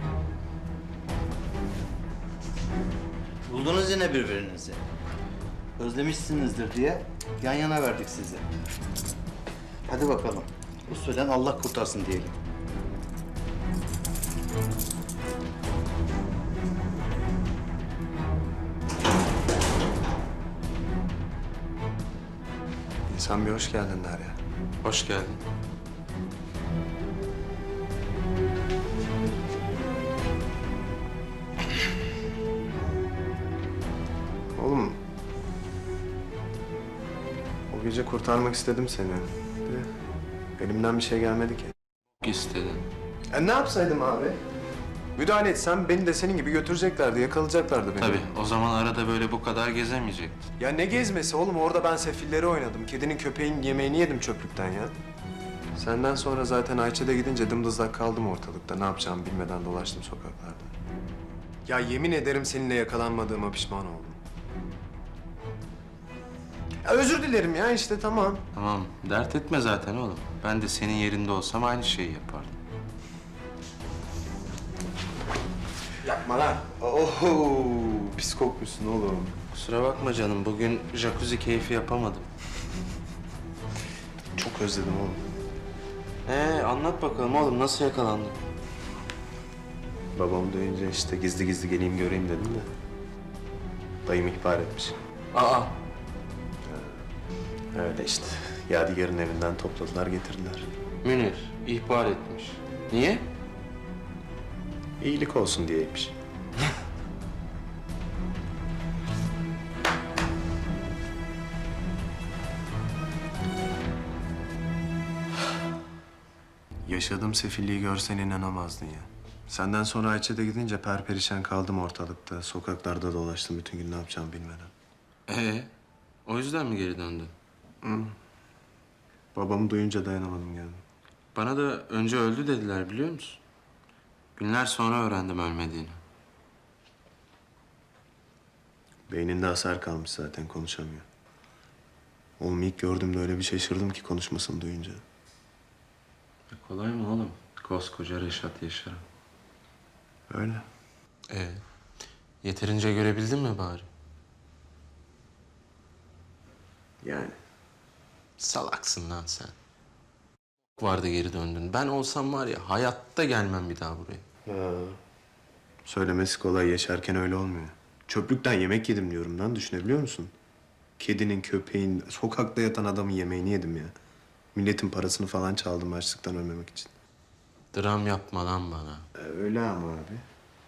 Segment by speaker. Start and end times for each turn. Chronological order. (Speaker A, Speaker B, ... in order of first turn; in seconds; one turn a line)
Speaker A: 3.5-4.8
Speaker A: 5.8-8.4
Speaker A: 9.8-12.4
Speaker B: 23.1-24.4
Speaker C: 24.8-25.4
Speaker B: 34.5-35.0
Speaker B: 37.7-39.9
Speaker B: 40.6-41.7
Speaker C: 42.2-42.8
Speaker B: 43.3-44.4
Speaker B: 45.1-48.3
Speaker C: 48.0-50.5
Speaker B: 50.6-54.9
Speaker B: 55.7-60.7
Speaker B: 61.6-64.2
Speaker B: 66.8-68.5
Speaker C: 68.5-72.5
Speaker B: 76.0-79.3
Speaker C: 79.5-82.3
Speaker B: 84.3-85.2
Speaker C: 86.2-88.4
Speaker B: 90.2-92.7
Speaker B: 94.0-95.0
Speaker C: 95.3-95.8
Speaker B: 96.6-97.0
Speaker B: 97.7-100.7
Speaker C: 101.0-103.3
Speaker B: 105.0-106.2
Speaker B: 116.8-124.7
Speaker C: 125.3-125.7
Speaker C: 126.2-127.3
Speaker B: 127.8-128.1
Speaker B: 129.3-130.8
Speaker C: 131.3-133.4
Speaker C: 134.3-136.0
Speaker B: 139.1-141.1
Speaker B: 142.4-145.0
Speaker C: 146.5-149.0
Speaker B: 150.3-150.6
Speaker C: 151.3-151.6
Speaker C: 152.4-153.9
Speaker B: 157.0-157.3
Speaker C: 158.4-159.5
Speaker C: 160.8-164.2
Speaker B: 164.4-165.0
Speaker B: 165.8-170.3
Speaker B: 171.0-173.9
Speaker B: 174.5-176.9
Speaker C: 177.7-179.1
Speaker B: 179.1-180.2